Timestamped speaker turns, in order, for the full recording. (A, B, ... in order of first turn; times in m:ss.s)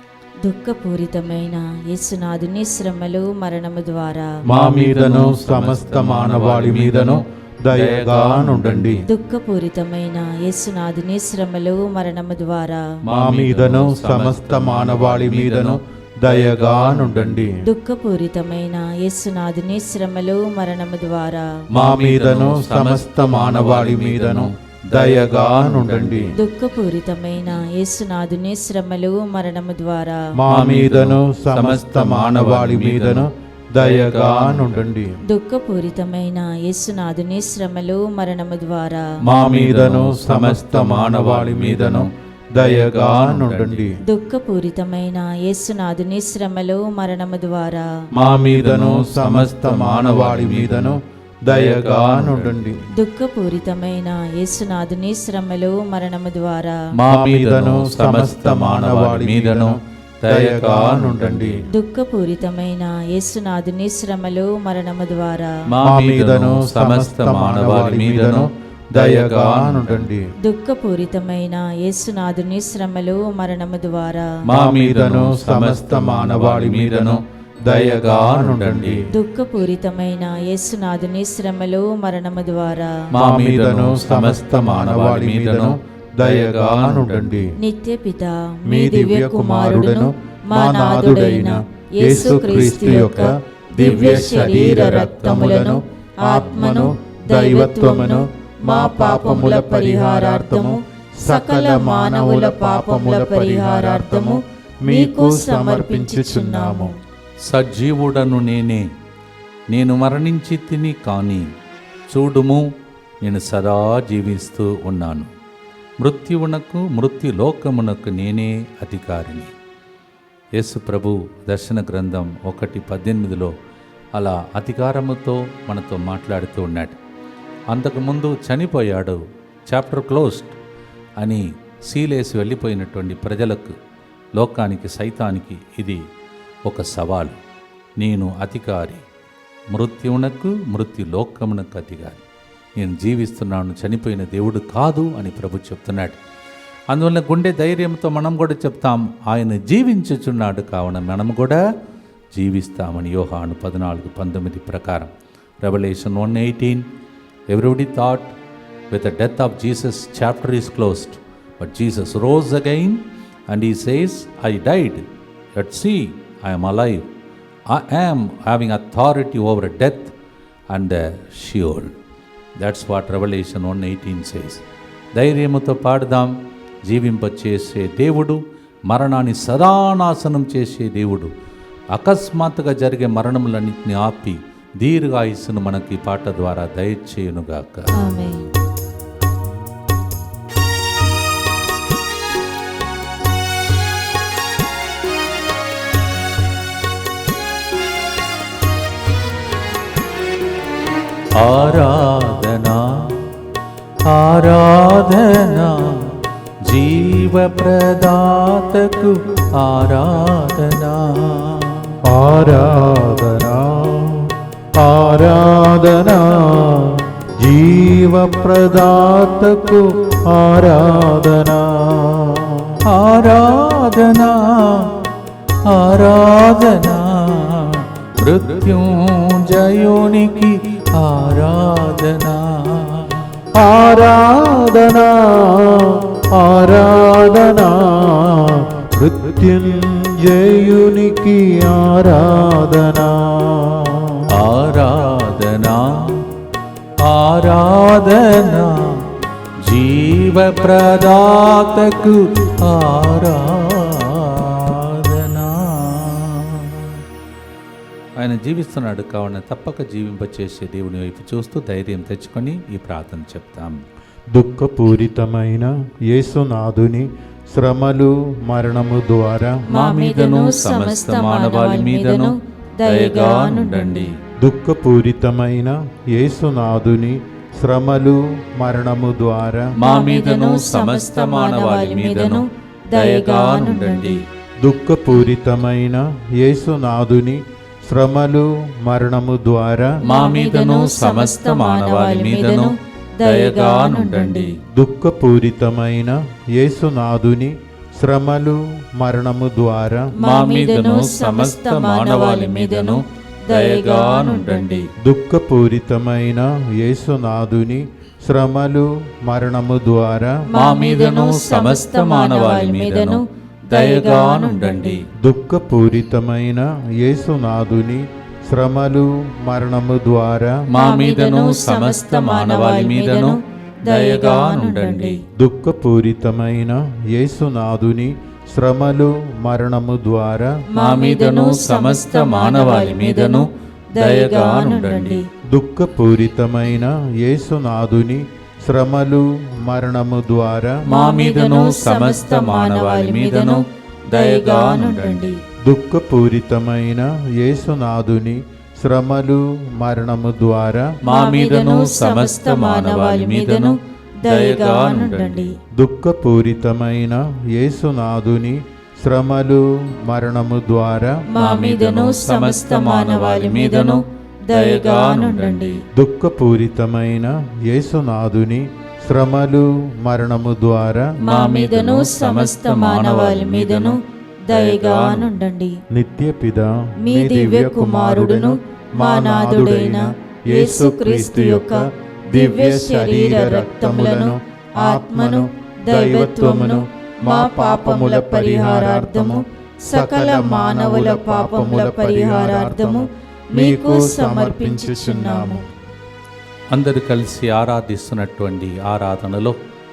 0:00.4-0:04.4 A
0:04.5-0:09.0 B
0:04.5-0:09.0 C
0:09.1-0:12.9 A
0:13.0-0:17.5 B
0:13.1-0:17.6 C
0:17.6-0:21.6 A
0:21.7-0:26.3 B
0:21.7-0:26.3 C
0:26.4-0:30.3 A
0:30.4-0:35.2 C
0:30.5-0:34.8 B
0:35.3-0:39.2 A
0:39.3-0:43.9 B
0:39.3-0:44.0 C
0:44.0-0:47.9 A
0:48.2-0:52.8 C
0:48.2-0:52.8 B
0:52.9-0:56.9 A
0:57.0-1:01.6 B
0:57.1-1:01.6 C
1:01.7-1:05.6 A
1:05.7-1:10.1 B
1:05.8-1:10.3 C
1:10.4-1:14.4 A
1:14.5-1:19.0 B
1:14.5-1:19.1 C
1:19.1-1:23.0 A
1:23.1-1:27.4 B
1:23.1-1:27.5 C
1:27.6-1:46.9 A
1:28.7-1:46.9 C
1:33.8-1:35.4 B
1:47.4-1:48.9 B
1:49.7-1:51.4 B
1:52.1-1:52.7 B
1:53.2-1:55.3 B
1:56.0-1:59.5 B
2:00.6-2:03.5 B
2:04.2-2:07.0 B
2:07.7-2:10.6 B
2:11.2-2:13.8 B
2:14.4-2:16.0 B
2:16.7-2:17.4 B
2:18.0-2:19.0 B
2:19.7-2:22.2 B
2:22.8-2:26.2 B
2:26.9-2:31.6 B
2:32.3-2:35.1 B
2:35.6-2:36.8 B
2:37.5-2:38.3 B
2:38.9-2:47.1 B
2:47.7-2:50.2 B
2:50.7-2:51.9 B
2:52.6-2:54.6 B
2:55.2-2:56.3 B
2:56.8-3:01.3 B
3:01.9-3:07.9 B
3:08.0-3:08.5 A
3:21.4-3:23.3 B
3:24.0-3:31.9 B
3:32.0-3:42.8 C
3:42.8-3:45.0 B
3:45.6-3:53.3 B
3:53.5-4:04.3 C
4:04.3-4:06.3 B
4:07.0-4:09.1 B
4:09.6-4:17.0 B
4:18.2-4:23.8 B
4:24.3-4:29.7 C
4:29.7-4:34.1 A
4:29.7-4:34.2 B
4:34.4-4:39.8 C
4:39.8-4:44.2 B
4:39.8-4:44.2 A
4:44.6-4:50.0 C
4:50.0-4:54.6 A
4:50.0-4:54.6 B
4:54.7-5:00.2 C
5:00.2-5:04.9 A
5:00.2-5:04.9 B
5:05.0-5:10.5 C
5:10.5-5:15.0 A
5:10.6-5:15.0 B
5:15.2-5:20.6 C
5:20.7-5:25.2 B
5:20.8-5:25.2 A
5:25.4-5:30.6 C
5:30.7-5:35.3 A
5:30.8-5:35.2 B
5:35.5-5:40.9 C
5:40.8-5:45.4 A
5:40.9-5:45.3 B
5:45.6-5:51.0 C
5:51.0-5:55.5 B
5:51.0-5:55.6 A
5:55.7-6:01.3 C
6:01.3-6:05.8 A
6:01.4-6:05.8 B
6:05.9-6:11.2 C
6:11.2-6:15.8 A
6:11.3-6:15.3 B
6:15.9-6:35.6 C
6:17.0-6:35.6 A
6:36.7-6:39.6 B